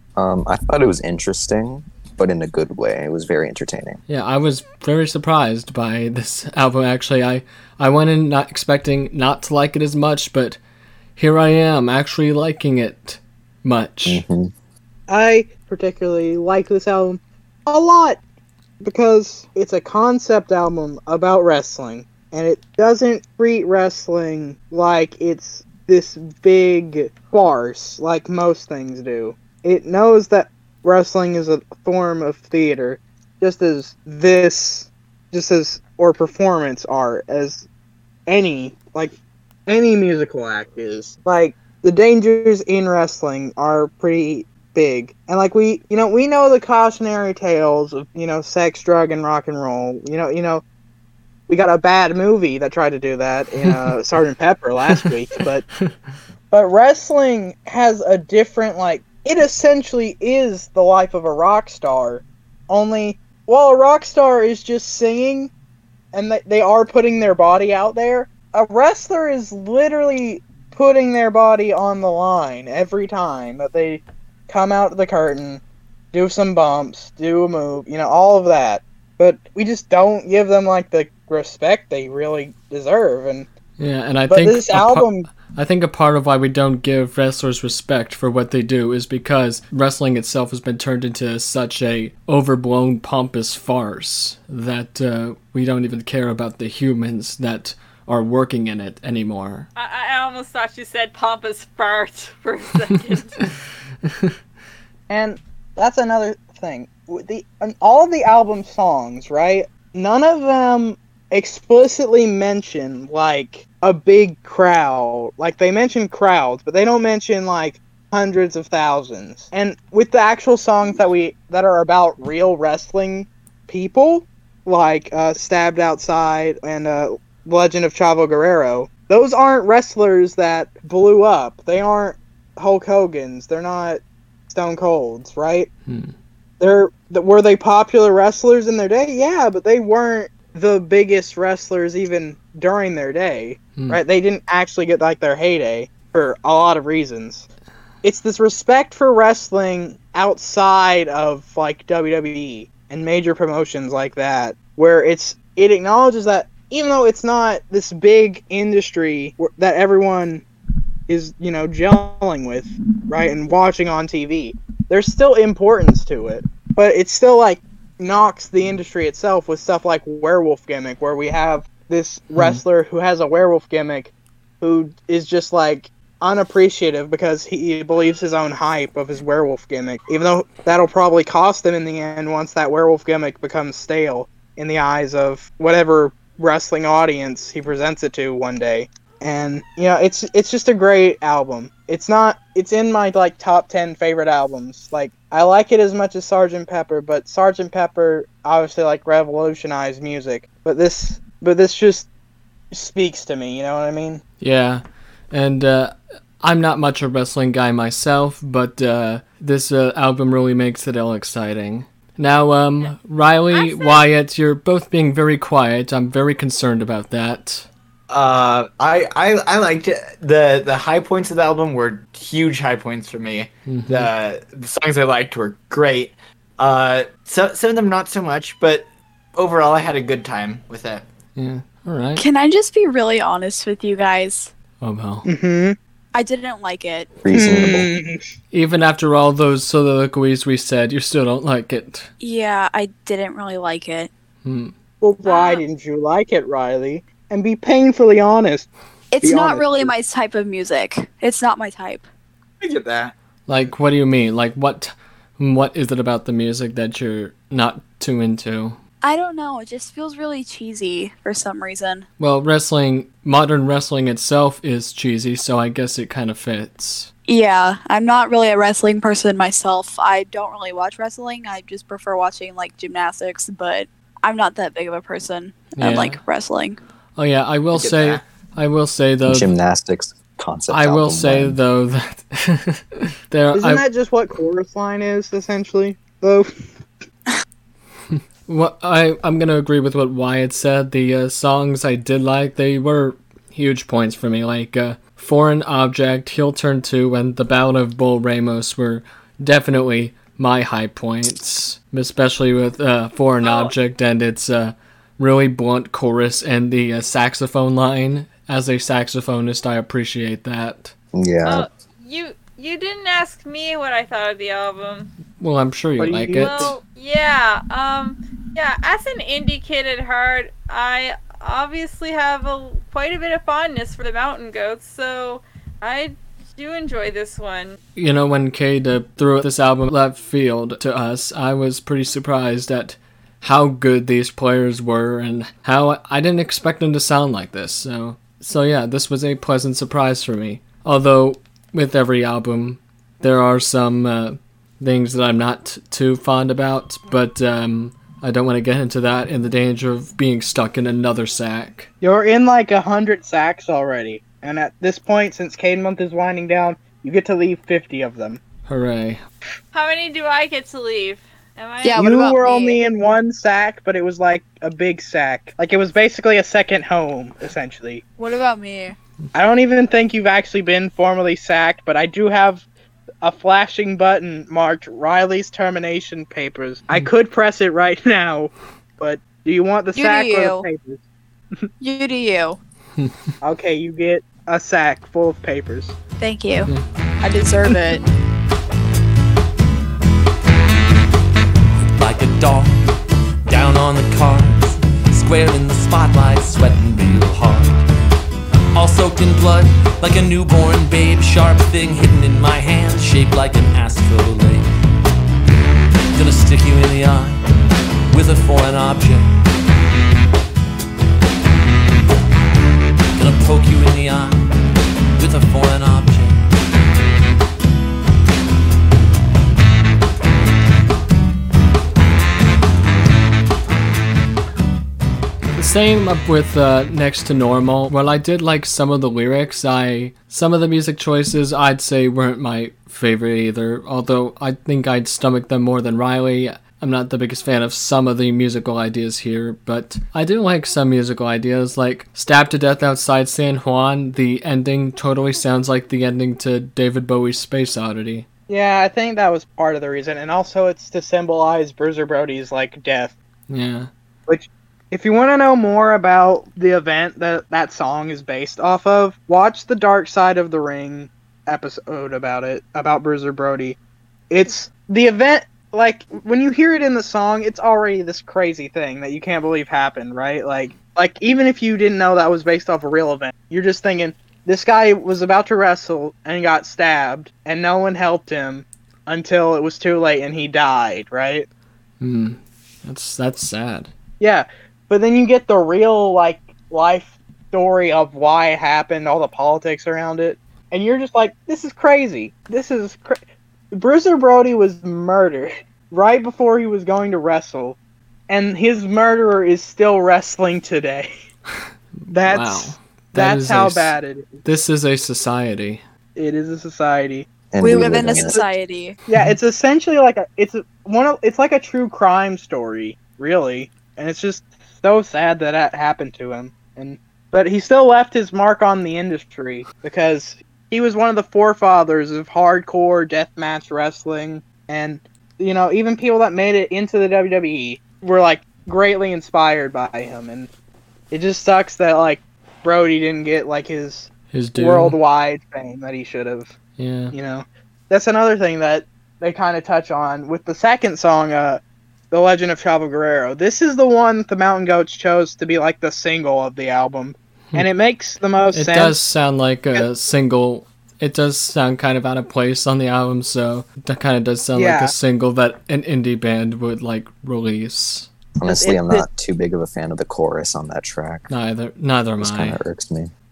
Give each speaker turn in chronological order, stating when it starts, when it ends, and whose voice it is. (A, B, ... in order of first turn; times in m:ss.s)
0:00.2-0:04.0 A
0:04.1-0:10.6 B
0:11.2-0:14.2 B
0:14.0-0:14.5 A
0:15.1-0:18.2 C
0:18.8-0:37.6 C
0:38.3-0:39.1 C
0:39.7-0:50.6 C
0:51.5-0:55.6 C
0:53.6-0:53.9 B
0:56.5-1:05.5 C
1:06.1-1:15.6 C
1:16.1-1:23.5 C
1:23.8-1:39.7 B
1:24.3-1:25.3 C
1:39.8-1:43.5 D
1:44.1-1:44.3 B
1:45.1-2:15.7 C
2:15.9-2:16.1 B
2:16.6-2:27.5 C
2:28.0-2:40.4 C
2:41.1-3:22.1 C
2:52.4-2:52.6 B
3:22.7-3:24.2 C
3:24.4-3:37.7 B
3:33.5-3:34.0 D
3:38.1-3:51.1 E
3:43.6-3:44.1 B
3:51.4-3:52.2 B
3:52.2-3:54.5 F
3:54.8-3:55.2 B
3:55.2-3:55.8 C
3:56.1-3:57.2 F
3:57.2-3:57.9 A
3:57.3-3:58.2 C
3:58.5-4:02.1 B
4:02.2-4:04.1 F
4:04.4-4:04.7 B
4:05.0-4:08.7 C
4:05.2-4:05.6 F
4:09.1-4:12.0 F
4:09.2-4:09.9 C
4:12.6-4:13.1 E
4:13.5-4:18.8 B
4:19.0-4:22.0 F
4:22.2-4:27.1 B
4:27.3-4:36.8 F
4:35.8-4:36.2 B
4:37.2-4:39.5 B
4:37.7-4:38.2 E
4:39.2-4:41.6 A
4:40.7-4:43.8 B
4:43.5-4:46.5 C
4:48.1-5:10.9 B
5:03.4-5:03.7 D
5:11.1-5:11.7 A
5:11.4-5:15.1 D
5:15.4-5:16.8 B
5:16.0-5:16.8 C
5:16.4-5:27.8 D
5:28.0-5:51.9 B
5:52.0-5:58.4 C
5:58.7-5:59.2 B
5:59.7-6:02.1 D
6:01.8-6:02.8 F
6:02.0-6:08.0 C
6:08.2-6:09.0 F
6:09.3-6:12.6 C
6:13.2-6:21.0 C
6:19.9-6:20.7 F
6:21.8-6:22.6 F
6:23.0-6:23.3 B
6:23.4-6:26.0 C
6:26.2-6:28.0 F
6:31.9-6:32.9 G
6:33.5-6:37.8 G
6:38.7-6:44.6 G
6:46.1-6:47.4 G
6:48.1-6:49.3 G
6:53.1-6:54.4 G
6:55.2-6:56.4 G
7:05.6-7:28.3 B
7:28.5-7:33.2 C
7:33.5-7:33.9 B
7:34.3-7:43.8 C
7:44.3-8:01.5 C
8:02.0-8:03.9 B
8:04.2-8:17.8 C
8:18.3-8:21.1 C
8:22.1-8:24.4 C
8:22.1-8:25.8 B
8:26.2-8:27.3 C
8:27.5-8:28.4 A
8:27.6-8:29.0 F
8:28.0-8:28.4 C
8:29.1-8:50.5 C
8:51.1-8:56.5 C
8:54.3-8:55.0 B
8:56.8-8:57.1 B
8:57.1-9:01.6 C
9:02.1-9:09.0 C
9:08.5-9:18.1 B
9:14.5-9:14.9 C
9:18.4-9:21.3 A
9:18.5-9:19.0 C
9:21.3-9:22.6 B
9:22.2-9:23.1 A